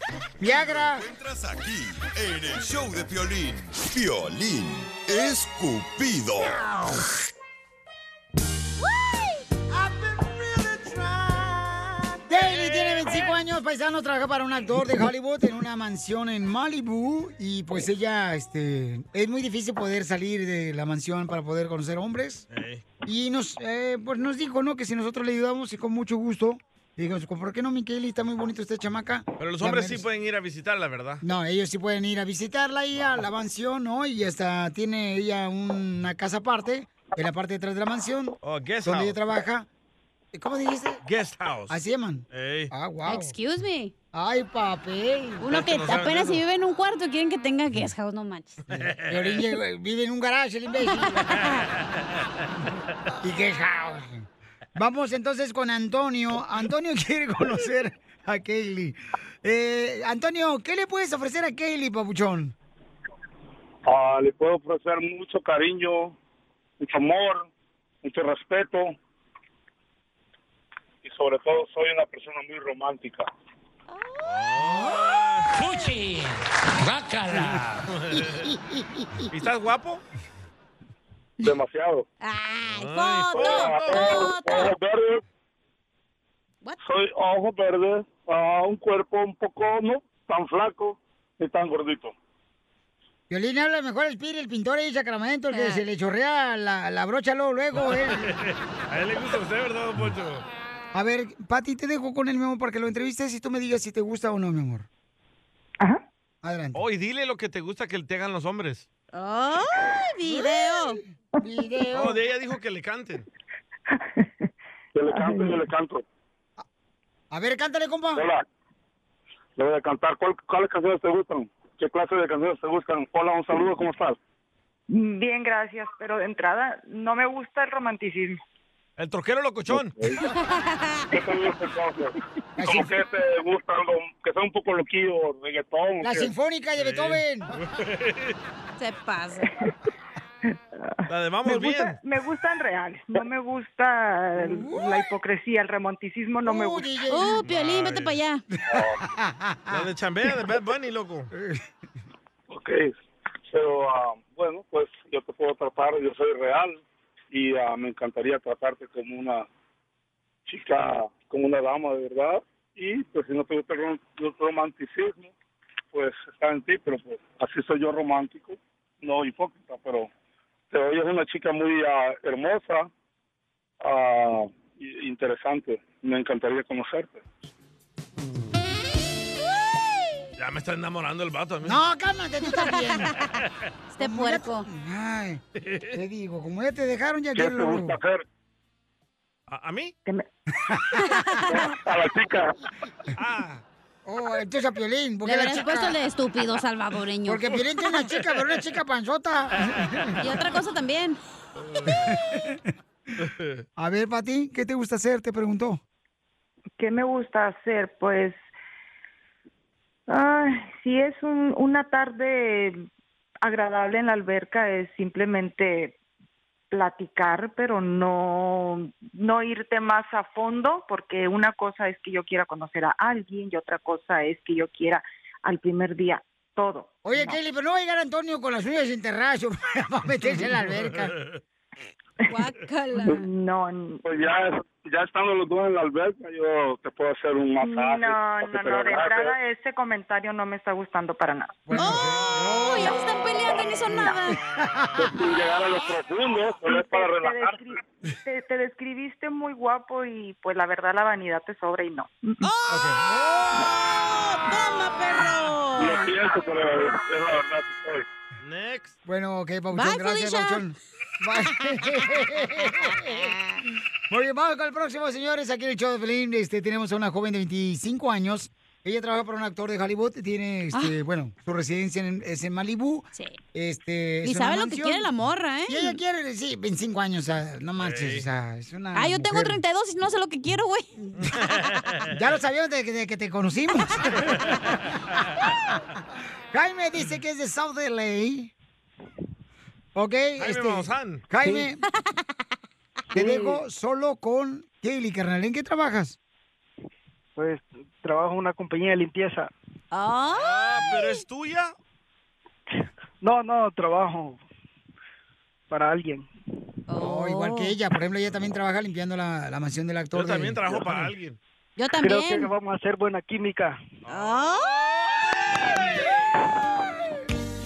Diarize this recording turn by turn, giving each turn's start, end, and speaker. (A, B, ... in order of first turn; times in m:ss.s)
0:00.4-0:01.0 A
0:00.5-0:06.6 B
0:12.3-0:22.4 A
0:12.4-0:13.3 C
0:22.5-0:22.8 C
0:23.0-0:30.0 A
0:29.4-0:31.2 C
0:31.2-0:39.7 A
0:38.4-0:39.2 C
0:40.3-0:41.0 A
0:41.0-0:41.8 C
0:41.7-0:43.3 A
0:42.3-0:42.7 C
0:43.0-0:43.9 D
0:44.1-0:45.4 A
0:45.4-0:48.6 D
0:45.5-0:46.4 C
0:48.7-0:49.4 C
0:49.1-0:51.3 A
0:50.9-0:51.6 D
0:52.0-0:52.4 C
0:53.2-1:02.5 A
1:03.9-1:06.2 E
1:06.8-1:07.5 E
1:08.0-1:08.9 E
1:11.0-1:13.3 E
1:14.0-1:14.3 D
1:14.2-1:15.5 C
1:17.8-1:18.5 C
1:19.3-1:20.0 C
1:21.4-1:22.0 E
1:22.2-1:24.7 D
1:22.6-1:24.3 C
1:23.3-1:25.2 E
1:26.8-1:32.1 E
1:33.3-1:38.3 A
1:35.5-1:35.8 D
1:38.1-1:40.4 C
1:40.9-1:44.9 A
1:46.4-1:46.8 A
1:46.7-1:48.9 C
1:49.1-1:51.0 D
1:51.4-1:52.2 A
1:51.9-1:53.3 C
1:53.9-1:54.4 F
1:54.9-1:56.0 E
1:55.1-1:55.6 F
1:57.3-1:58.2 A
1:58.2-1:58.4 E
1:59.6-2:04.2 E
2:04.9-2:08.4 F
2:09.0-2:09.9 C
2:09.7-2:10.2 E
2:10.5-2:11.0 D
2:11.1-2:16.3 E
2:12.6-2:12.9 A
2:16.0-2:17.5 A
2:16.8-2:18.4 C
2:18.8-2:19.5 D
2:19.4-2:19.7 F
2:20.8-2:26.9 F
2:21.1-2:22.0 C
2:24.4-2:25.1 A
2:26.4-2:27.3 A
2:27.1-2:28.4 D
2:27.4-2:28.1 C
2:28.7-2:29.0 E
2:28.7-2:29.8 A
2:29.7-2:31.3 C
2:31.3-2:31.6 A
2:32.5-2:32.9 E
2:33.5-2:36.8 E
2:37.3-2:39.4 E
2:40.4-2:45.3 E
2:45.9-2:50.1 E
2:50.7-2:52.9 E
2:53.8-2:57.2 E
3:00.4-3:01.8 C
3:01.6-3:03.1 A
3:02.5-3:03.0 D
3:03.9-3:04.6 D
3:04.0-3:05.4 A
3:05.6-3:06.0 C
3:05.9-3:08.0 A
3:07.3-3:08.2 E
3:09.5-3:09.9 C
3:10.6-3:11.2 A
3:11.0-3:11.6 D
3:11.5-3:12.6 E
3:13.2-3:13.6 C
3:14.0-3:16.0 A
3:15.2-3:17.5 D
3:17.2-3:20.2 A
3:20.2-3:21.2 D
3:21.6-3:22.1 C
3:21.9-3:22.6 A
3:23.2-3:23.6 C
3:23.8-3:25.8 A
3:26.8-3:28.4 F
3:30.1-3:32.9 F
3:33.4-3:36.0 F
3:36.7-3:47.4 F
3:47.0-3:51.2 A
3:52.3-3:53.3 D
3:53.0-3:54.0 F
3:54.0-3:59.3 E
3:57.6-4:01.8 F
4:01.7-4:02.9 A
4:01.7-4:04.4 D
4:03.8-4:05.1 A
4:05.0-4:07.6 E
4:06.7-4:12.4 F
4:12.4-4:16.1 D
4:12.7-4:13.6 A
4:15.8-4:18.0 E
4:18.4-4:19.0 C
4:19.0-4:23.4 A
4:19.7-4:20.6 D
4:24.1-4:35.1 A
4:33.1-4:33.4 D
4:34.2-4:36.0 D
4:35.7-4:39.6 A
4:37.8-4:38.2 C
4:38.9-4:40.9 D
4:41.2-4:42.1 C
4:42.1-4:44.7 A
4:44.3-4:44.6 C
4:46.5-4:48.5 A
4:50.0-4:51.8 A
4:50.4-4:51.2 C
4:53.1-4:53.6 G
4:53.1-4:56.2 A
4:57.4-4:59.5 G
4:59.9-5:00.5 D
5:00.3-5:01.7 C
5:03.2-5:04.4 G
5:05.7-5:06.3 G
5:06.9-5:07.7 D
5:07.0-5:11.1 A
5:10.1-5:11.4 C
5:11.8-5:12.5 D
5:12.0-5:13.8 G
5:14.0-5:15.1 C
5:14.1-5:14.9 D